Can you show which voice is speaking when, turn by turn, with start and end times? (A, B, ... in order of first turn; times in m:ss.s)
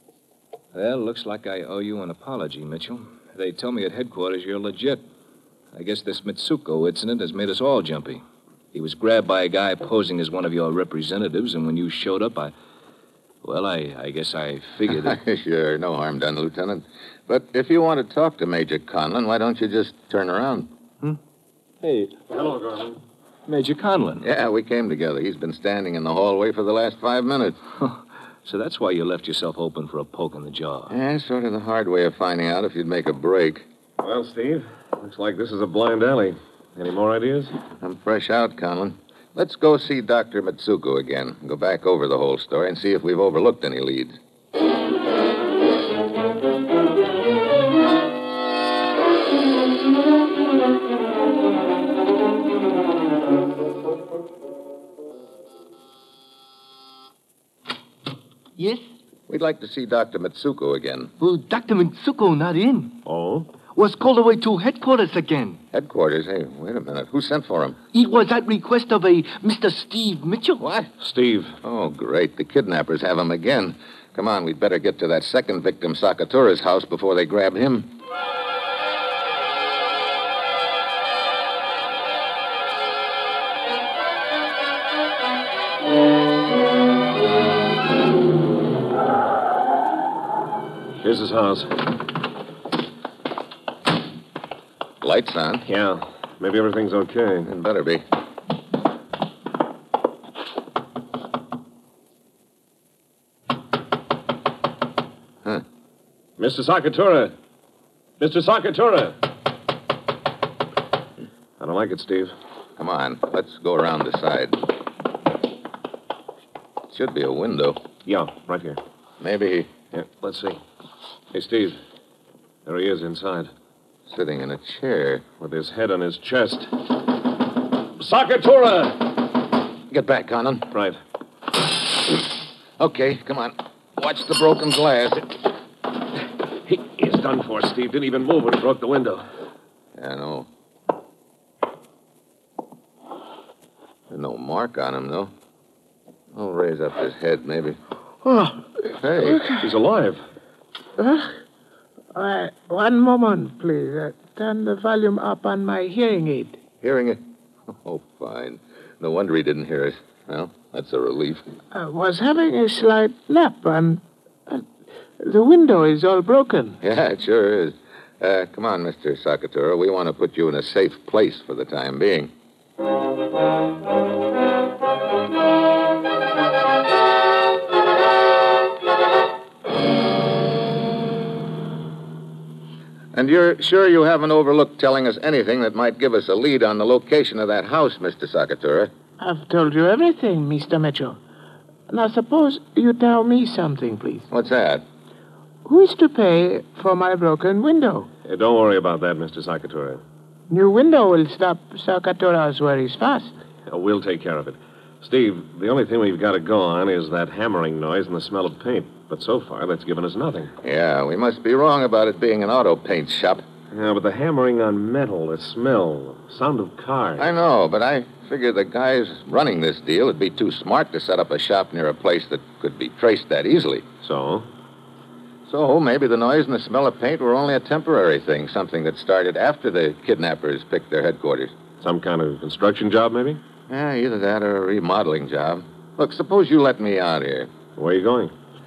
0:00.7-0:05.0 A
0:05.7-0:08.2 A
0:08.7-0:12.5 A
0:13.4-0:15.2 A
0:14.9-0:20.7 B
0:21.8-0:22.2 A
0:22.3-0:23.0 C
0:23.5-0:24.2 A
0:24.2-0:27.6 B
0:27.8-0:30.9 A
0:30.9-0:33.7 B
0:34.0-0:37.5 C
0:37.8-0:44.2 B
0:58.6-0:58.8 D
0:59.3-1:01.1 B
1:01.2-1:03.0 D
1:03.0-1:03.5 C
1:03.7-1:05.6 D
1:05.7-1:07.8 B
1:07.9-1:10.6 D
1:10.6-1:10.9 B
1:11.0-1:11.6 C
1:11.6-1:17.9 B
1:31.0-1:31.8 C
1:35.0-1:35.7 B
1:35.7-1:37.5 C
1:37.4-1:38.0 B
1:46.4-1:47.3 C
1:48.2-1:49.2 C
1:51.6-1:52.3 C
1:52.8-1:54.6 B
1:56.9-1:57.8 B
1:58.1-1:58.8 C
1:59.2-1:59.7 B
1:59.9-2:00.6 C
2:01.3-2:01.8 C
2:02.7-2:03.5 C
2:04.1-2:05.2 B
2:05.4-2:06.8 C
2:08.0-2:09.1 C
2:09.9-2:10.7 B
2:10.7-2:11.0 C
2:12.8-2:15.4 B
2:16.7-2:19.2 C
2:20.0-2:20.5 B
2:24.1-2:25.3 B
2:26.3-2:27.8 B
2:28.2-2:28.6 E
2:28.9-2:29.4 B
2:29.3-2:29.6 E
2:29.6-2:30.2 C
2:31.0-2:31.3 E
2:32.1-2:36.6 E
2:36.8-2:41.4 B
2:41.7-2:44.7 E
2:45.2-2:46.8 E
2:46.8-2:52.3 B
3:03.1-3:08.9 B
3:09.2-3:11.2 E
3:11.9-3:14.3 E
3:14.3-3:14.8 B
3:15.6-3:18.1 E
3:18.2-3:20.0 C
3:20.5-3:23.3 E
3:23.7-3:30.5 C
3:30.6-3:33.4 B
3:33.7-3:37.3 C
3:37.2-3:43.9 B
3:44.0-3:44.5 C
3:45.5-3:51.5 B
3:51.8-3:53.4 C
3:53.7-3:57.5 B
3:57.8-3:58.3 C